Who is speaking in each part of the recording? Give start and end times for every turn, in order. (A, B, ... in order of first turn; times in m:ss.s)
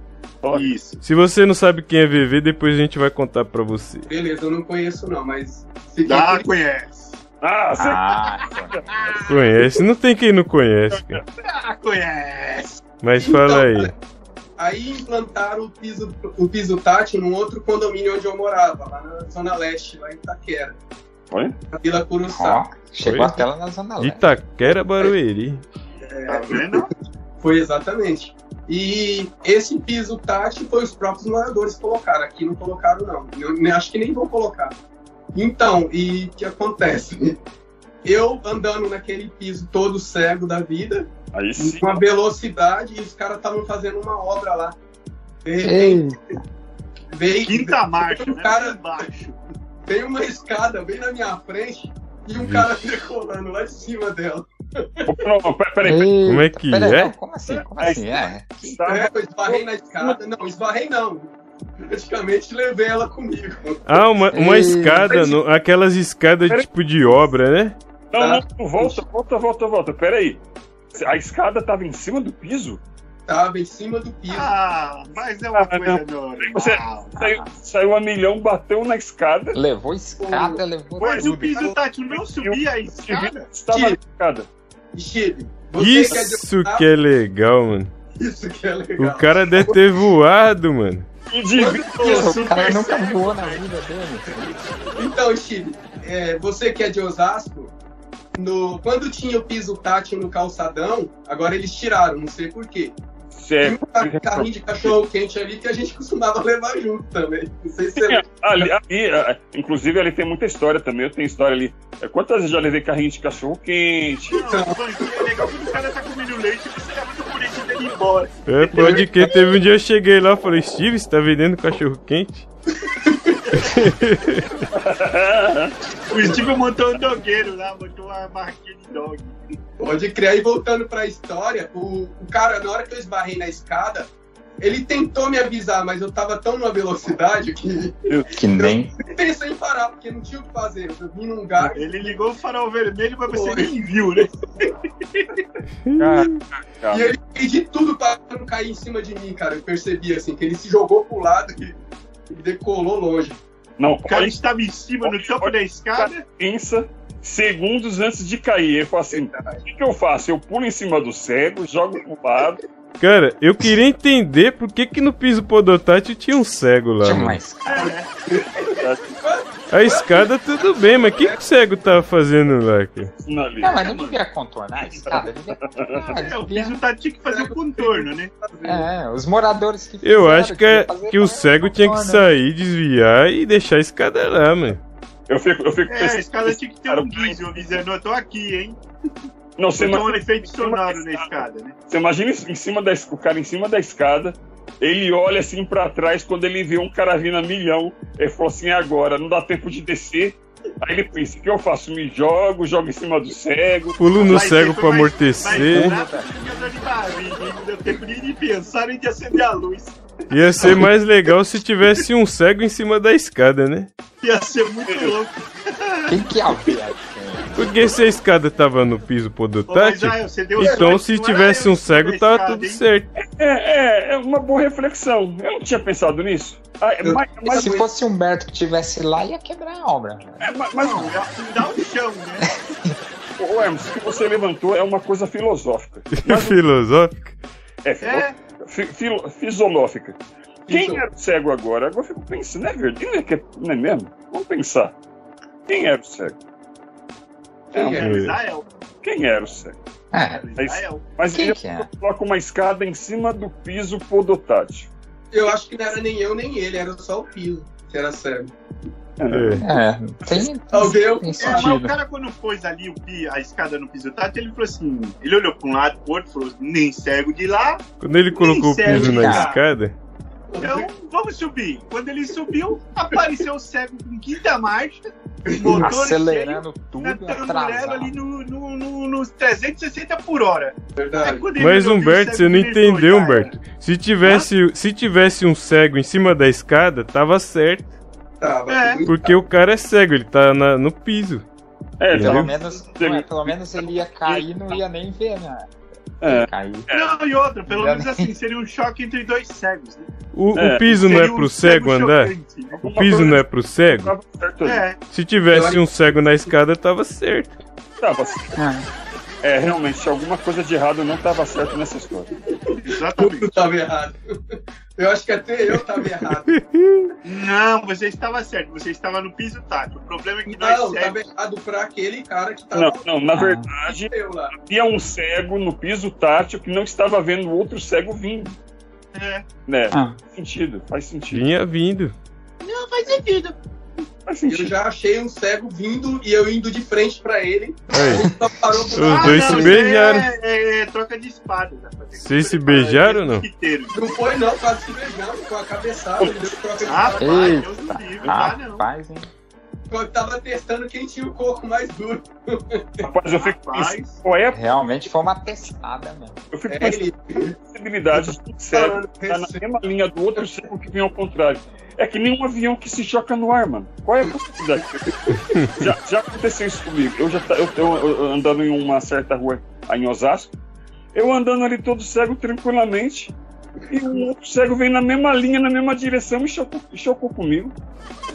0:00.4-0:00.7 A
0:00.6-0:01.0 B
0:01.0-0:04.1 C
0:04.1-0:06.5 D
0:06.0-0:07.2 B
0:07.4-0:08.0 A
0:07.8-0:09.3 E
0:08.9-0:09.2 B
0:09.3-0:11.2 C
0:10.9-0:11.2 A
0:11.4-0:12.8 B
0:13.0-0:13.9 C
0:13.2-0:13.9 D
0:14.6-0:20.8 D
0:21.7-0:22.6 D
0:22.3-0:24.3 E
0:23.0-0:23.4 C
0:24.0-0:25.6 C
0:26.0-0:26.9 D
0:26.3-0:26.9 B
0:27.4-0:34.8 D
0:35.3-0:37.4 D
0:38.0-0:44.8 D
0:41.3-0:42.0 A
0:45.4-0:46.1 D
0:45.6-0:46.2 E
0:47.1-0:48.8 D
0:47.4-0:49.4 B
0:49.9-0:54.9 D
0:52.4-0:52.7 C
0:55.1-0:56.1 A
0:55.8-0:58.8 E
0:56.2-0:57.1 C
0:57.5-1:00.2 A
0:58.9-1:03.8 D
1:03.9-1:07.8 C
1:04.3-1:05.3 E
1:05.1-1:05.4 D
1:08.1-1:10.4 A
1:08.2-1:09.0 D
1:10.9-1:12.8 A
1:13.3-1:14.6 D
1:14.3-1:17.2 B
1:15.5-1:19.6 A
1:17.2-1:17.5 E
1:19.5-1:21.7 E
1:20.2-1:20.6 D
1:21.0-1:23.5 B
1:21.0-1:24.5 A
1:23.7-1:24.0 D
1:24.9-1:26.9 D
1:25.8-1:27.9 C
1:28.2-1:29.8 D
1:29.0-1:31.1 C
1:31.3-1:32.1 A
1:31.5-1:32.5 D
1:31.8-1:33.7 B
1:32.0-1:34.5 E
1:35.0-1:37.7 D
1:38.4-1:43.0 D
1:43.3-1:44.9 A
1:43.6-1:48.7 D
1:48.0-1:54.4 A
1:54.3-1:59.3 B
1:54.5-1:55.2 D
1:58.5-2:02.5 C
1:58.8-1:59.4 D
2:02.9-2:03.4 D
2:03.5-2:04.5 C
2:04.7-2:05.7 A
2:06.1-2:09.4 B
2:09.8-2:22.2 D
2:18.3-2:19.0 E
2:21.7-2:24.3 B
2:23.3-2:24.3 D
2:25.1-2:25.4 B
2:25.8-2:26.4 C
2:26.0-2:27.1 A
2:26.9-2:31.8 D
2:32.3-2:33.4 D
2:33.8-2:34.4 A
2:34.1-2:36.2 B
2:35.0-2:42.6 A
2:39.1-2:39.6 D
2:43.0-2:47.4 C
2:47.0-2:47.7 E
2:47.6-2:48.1 B
2:47.8-2:50.3 D
2:48.8-2:49.1 A
2:49.7-2:53.1 C
2:51.0-2:51.4 D
2:53.1-2:54.2 A
2:53.6-2:56.8 E
2:55.1-2:55.8 A
2:55.9-2:58.3 B
2:57.2-2:58.9 D
2:58.6-3:02.3 E
3:00.0-3:04.8 C
3:05.3-3:07.8 A
3:05.9-3:08.8 B
3:09.6-3:24.6 A
3:09.8-3:11.8 B
3:24.0-3:26.0 C
3:24.2-3:30.9 B
3:25.4-3:26.3 E
3:30.3-3:33.9 C
3:34.2-3:36.7 B
3:34.9-3:35.2 A
3:36.1-3:37.7 E
3:37.6-3:43.1 C
3:39.7-3:42.9 B
3:40.6-3:41.0 D
3:43.2-3:47.8 A
3:47.0-3:47.9 D
3:47.5-3:51.1 E
3:50.4-3:51.2 A
3:50.8-3:52.5 B
3:53.4-3:56.6 A
3:56.1-3:57.4 C
3:57.8-4:05.0 A
3:58.0-3:58.4 B
4:00.7-4:01.1 D
4:05.7-4:06.4 A
4:07.7-4:08.1 D
4:07.8-4:08.7 B
4:08.0-4:08.4 C
4:09.0-4:09.8 A
4:10.1-4:10.4 E
4:10.3-4:11.1 B
4:10.6-4:14.9 A
4:11.3-4:11.9 E
4:15.3-4:18.5 D
4:19.2-4:19.7 A
4:19.3-4:19.7 C
4:19.6-4:22.0 E
4:20.7-4:21.8 D
4:21.4-4:29.6 B
4:28.0-4:30.0 C
4:28.9-4:29.5 E
4:30.5-4:30.9 D
4:30.6-4:43.6 B
4:33.1-4:33.4 D
4:35.5-4:36.0 D
4:35.8-4:38.1 E
4:41.0-4:41.5 D
4:41.6-4:47.9 C
4:48.4-4:49.4 D
4:48.7-4:49.1 B
4:49.1-4:51.4 C
4:52.0-4:54.8 A
4:52.1-4:52.5 C
4:52.1-4:55.7 E
4:56.2-4:57.1 A
4:56.2-4:56.9 E
4:56.9-5:00.1 B
4:57.7-4:58.3 E
5:00.3-5:04.1 C
5:00.6-5:01.1 A
5:00.9-5:02.9 B
5:02.8-5:04.8 A
5:04.6-5:05.0 B
5:05.1-5:07.6 C
5:05.5-5:06.4 D
5:08.0-5:08.5 A
5:08.6-5:08.9 E
5:09.4-5:12.3 A
5:12.7-5:13.6 B
5:12.9-5:16.5 D
5:16.5-5:17.1 C
5:17.2-5:21.3 B
5:20.5-5:23.3 D
5:22.7-5:28.6 A
5:23.3-5:23.7 E
5:23.9-5:24.5 D
5:29.1-5:29.5 B
5:29.7-5:31.5 A
5:29.9-5:30.2 E
5:31.3-5:32.2 C
5:32.6-5:33.6 B
5:34.3-5:34.7 A
5:34.5-5:40.0 D
5:37.9-5:38.3 C
5:38.9-5:40.3 C
5:39.0-5:44.1 B
5:42.2-5:43.5 C
5:43.9-5:47.7 D
5:46.9-5:48.9 B
5:47.2-5:49.3 E
5:49.9-5:53.1 D
5:53.0-5:54.7 A
5:53.4-5:54.2 B
5:54.5-5:56.4 E
5:56.5-5:57.0 A
5:56.7-5:57.6 D
5:57.7-6:05.0 A
5:58.1-5:59.6 D
6:05.8-6:10.5 A
6:11.1-6:13.4 A
6:13.9-6:17.8 A